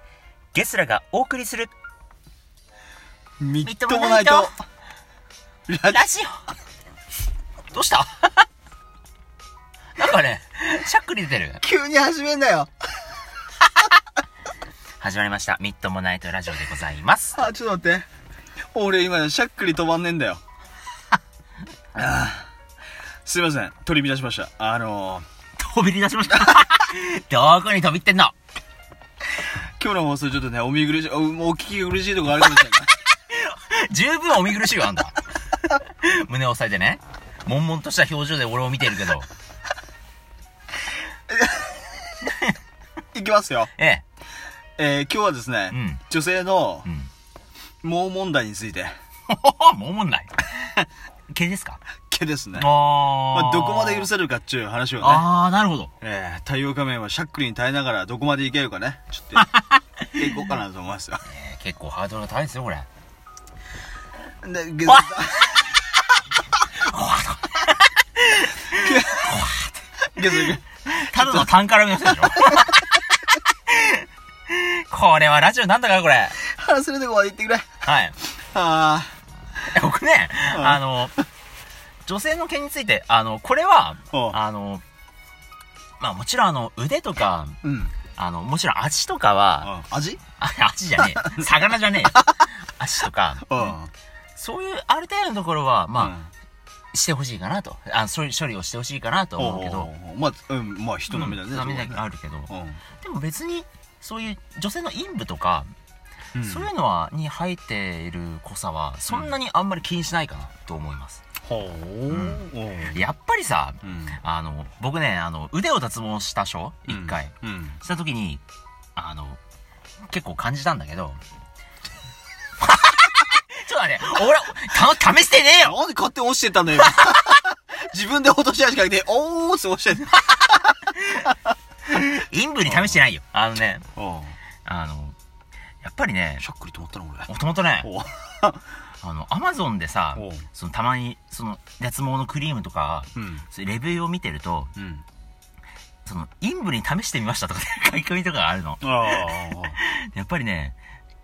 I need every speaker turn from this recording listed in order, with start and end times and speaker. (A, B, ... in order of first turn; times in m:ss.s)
0:00.5-0:01.7 A
0:03.4-0:04.5 B
0:03.6-0:04.5 A
0:05.7-0:06.0 B
0:05.9-0:06.4 A
0:07.7-0:08.2 A
0:10.0-0:11.6 A
0:11.6-0:12.7 B
0:15.0-0:17.4 A
0:17.3-0:18.0 B
0:18.7-0:20.4 B
0:21.9-0:22.4 B
0:23.2-0:25.2 B
0:25.6-0:28.3 A
0:29.8-0:32.9 B
0:33.3-0:35.2 A
0:35.7-0:39.3 A
0:41.3-0:41.9 B
0:42.2-0:42.5 A
0:43.1-0:43.7 B
0:43.8-0:44.0 A
0:44.8-0:46.9 B
0:45.7-0:46.0 A
0:47.8-0:48.9 B
0:49.3-0:50.5 A
0:51.3-0:51.8 A
0:52.1-0:55.3 B
0:52.6-0:54.1 A
0:55.0-0:55.9 A
0:56.0-0:59.4 B
0:59.4-0:59.8 A
1:00.1-1:01.2 B
1:01.2-1:02.9 A
1:04.4-1:05.5 B
1:04.8-1:05.8 A
1:06.5-1:09.8 A
1:08.7-1:09.4 B
1:10.1-1:11.5 B
1:10.8-1:16.4 A
1:16.4-1:19.1 B
1:17.8-1:18.2 A
1:19.7-1:21.1 A
1:20.5-1:20.8 B
1:22.0-1:24.8 A
1:24.1-1:24.4 B
1:26.0-1:27.6 A
1:27.6-1:28.0 B
1:28.1-1:29.7 A
1:29.6-1:30.2 B
1:30.4-1:33.7 A
1:31.0-1:31.4 B
1:33.4-1:33.9 B
1:34.4-1:36.1 A
1:36.0-1:36.3 B
1:36.9-1:39.9 A
1:39.4-1:42.8 B
1:41.1-1:45.7 A
1:46.3-1:46.7 B
1:46.4-1:51.2 A
1:49.1-1:49.3 B
1:51.4-1:53.0 B
1:52.1-1:58.4 A
1:53.8-1:54.2 B
1:56.9-1:57.8 B
1:59.0-1:59.4 A
2:00.1-2:01.2 A
2:02.6-2:05.8 A
2:05.6-2:10.2 B
2:10.1-2:11.3 A
2:11.8-2:13.8 A
2:12.6-2:13.0 B
2:14.0-2:14.4 B
2:14.6-2:15.2 A
2:15.8-2:16.4 A
2:16.4-2:17.3 B
2:17.3-2:17.9 A
2:17.8-2:18.6 B
2:19.0-2:24.7 A
2:20.1-2:20.4 B
2:23.2-2:23.4 B
2:24.8-2:25.0 B
2:26.0-2:30.8 A
2:28.8-2:29.8 B